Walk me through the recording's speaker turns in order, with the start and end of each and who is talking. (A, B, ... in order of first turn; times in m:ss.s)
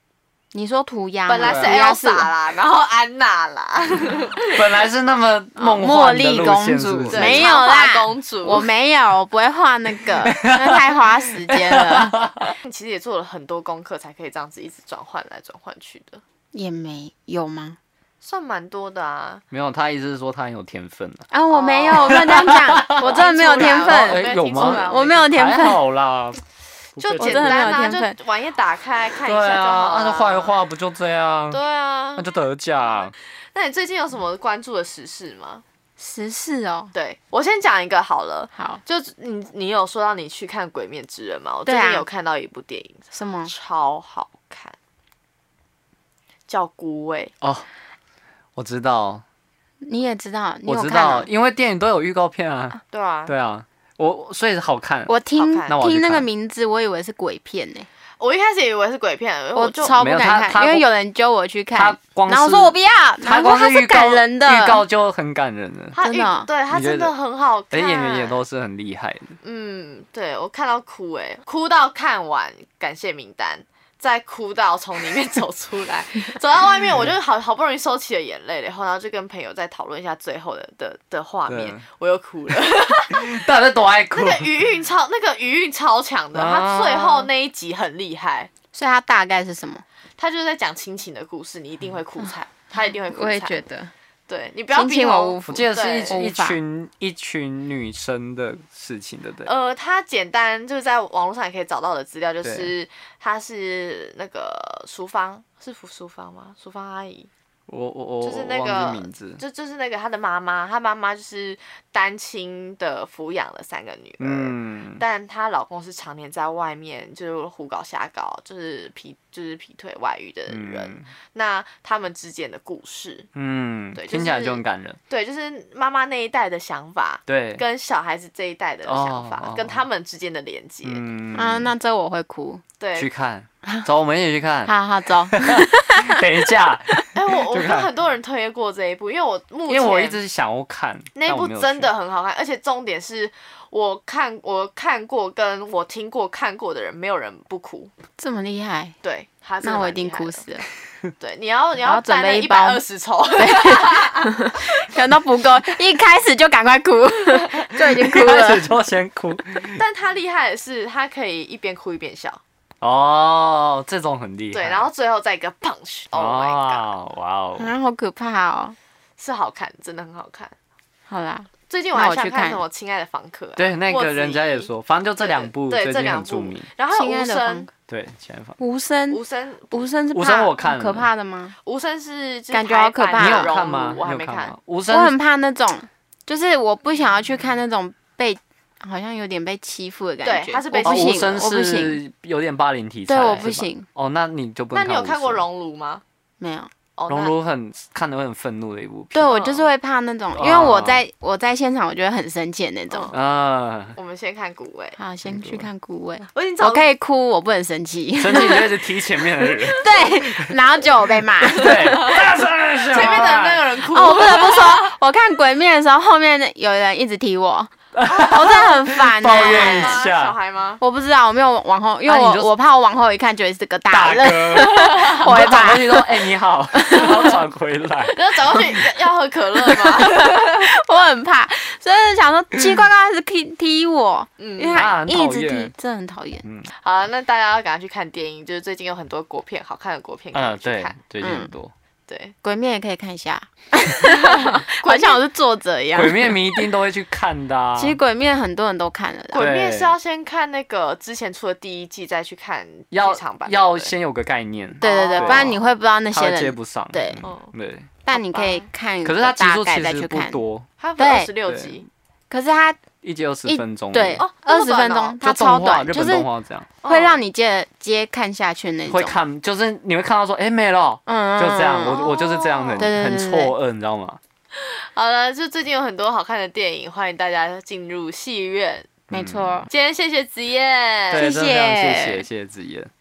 0:00.5-0:02.3 A
0:01.3-0:04.6 B
0:01.4-0:01.7 C
0:04.4-0:07.5 C
0:05.6-0:12.2 A
0:07.1-0:08.7 B
0:10.2-0:12.5 C
0:12.6-0:16.2 B
0:16.5-0:17.8 A
0:18.2-0:19.4 B
0:19.5-0:21.3 C
0:21.3-0:25.8 A
0:21.5-0:25.4 B
0:22.0-0:26.4 C
0:27.0-0:27.7 C
0:27.0-0:30.6 B
0:27.2-0:28.2 A
0:29.2-0:31.6 C
0:31.5-0:32.2 B
0:32.2-0:33.1 C
0:33.5-0:35.6 B
0:36.0-0:36.9 A
0:36.9-0:44.8 B
0:38.5-0:38.8 A
0:41.7-0:42.1 A
0:43.1-0:43.5 A
0:46.5-0:47.3 B
0:48.6-0:49.2 C
0:49.8-0:51.3 A
0:50.7-0:55.1 C
0:52.9-0:53.3 B
0:55.1-0:57.9 A
0:55.3-0:55.8 B
0:55.7-0:56.3 C
0:58.2-1:00.0 B
0:59.6-1:04.8 A
1:00.0-1:00.9 C
1:01.8-1:06.0 C
1:05.9-1:08.4 B
1:06.0-1:06.5 A
1:06.7-1:07.1 C
1:07.7-1:09.4 C
1:09.4-1:23.5 B
1:21.5-1:21.8 C
1:23.1-1:24.5 C
1:24.1-1:28.5 B
1:26.3-1:27.3 C
1:28.7-1:29.8 A
1:30.2-1:33.6 B
1:32.8-1:33.9 A
1:34.3-1:36.2 B
1:34.7-1:36.6 A
1:35.5-1:39.5 C
1:39.4-1:47.3 B
1:42.4-1:42.7 C
1:47.7-1:49.4 C
1:48.2-2:03.3 B
1:54.2-1:55.0 C
2:00.5-2:01.1 C
2:03.4-2:05.0 C
2:03.9-2:11.0 B
2:07.3-2:07.6 C
2:08.8-2:09.8 C
2:10.8-2:11.7 C
2:11.3-2:12.6 A
2:12.8-2:13.1 B
2:13.0-2:14.8 C
2:14.7-2:17.1 A
2:15.3-2:17.9 C
2:17.2-2:20.2 B
2:19.7-2:21.9 C
2:21.2-2:27.9 B
2:28.2-2:29.0 A
2:29.0-2:30.4 B
2:29.6-2:30.6 A
2:31.2-2:34.5 B
2:31.8-2:32.8 A
2:33.4-2:38.7 A
2:37.8-2:39.8 C
2:39.8-2:42.4 B
2:42.8-2:44.9 C
2:44.5-2:46.9 B
2:46.1-2:47.7 C
2:47.6-2:48.8 A
2:49.2-2:50.5 B
2:51.1-2:52.6 A
2:51.7-2:57.7 B
2:53.6-2:56.7 C
2:56.9-2:57.7 A
2:57.9-2:58.6 C
2:58.6-3:01.6 A
2:59.1-2:59.8 B
3:00.1-3:01.1 C
3:01.6-3:04.6 B
3:02.5-3:03.5 A
3:03.2-3:05.1 C
3:04.9-3:12.0 A
3:10.2-3:11.5 B
3:10.9-3:15.4 C
3:13.1-3:13.9 A
3:14.7-3:16.0 B
3:16.4-3:16.7 A
3:17.0-3:17.3 B
3:17.1-3:19.4 C
3:19.1-3:23.1 A
3:19.3-3:19.7 B
3:20.3-3:21.0 C
3:22.9-3:23.2 B
3:23.1-3:24.0 C
3:24.0-3:25.0 B
3:25.0-3:28.8 A
3:25.2-3:25.7 C
3:26.3-3:26.9 B
3:28.2-3:30.6 C
3:29.4-3:32.3 A
3:31.4-3:33.7 C
3:31.9-3:32.2 B
3:32.9-3:34.9 B
3:33.9-3:40.1 A
3:38.0-3:40.4 C
3:38.0-3:38.7 B
3:39.3-3:40.8 B
3:40.8-3:47.4 A
3:42.1-3:42.5 C
3:43.9-3:48.8 C
3:44.7-3:45.3 B
3:48.1-3:50.7 B
3:50.0-3:56.4 A
3:54.4-3:54.9 B
3:54.8-3:55.7 C
3:56.4-3:56.7 C
3:56.8-4:01.0 B
4:00.3-4:01.7 C
4:01.2-4:01.5 A
4:02.1-4:02.4 B
4:02.4-4:06.7 A
4:04.1-4:05.2 B
4:06.0-4:08.0 C
4:07.8-4:09.5 A
4:09.3-4:13.9 B
4:09.3-4:10.0 C
4:12.9-4:17.9 C
4:14.8-4:17.3 A
4:14.8-4:15.6 B
4:17.2-4:17.5 B
4:18.1-4:20.4 A
4:18.1-4:18.7 B
4:19.0-4:20.7 C
4:20.8-4:21.9 B
4:21.0-4:21.3 A
4:21.5-4:21.8 C
4:22.3-4:22.8 A
4:23.0-4:24.2 C
4:23.5-4:26.3 A
4:24.2-4:25.2 B
4:25.2-4:26.7 C
4:26.8-4:27.2 B
4:26.8-4:29.2 A
4:28.9-4:34.2 C
4:31.1-4:32.1 A
4:31.9-4:32.9 B
4:32.8-4:33.6 A
4:34.6-4:39.0 B
4:39.1-4:39.6 C
4:39.1-4:39.7 A
4:39.7-4:41.3 B
4:41.1-4:42.9 C
4:41.2-4:42.3 A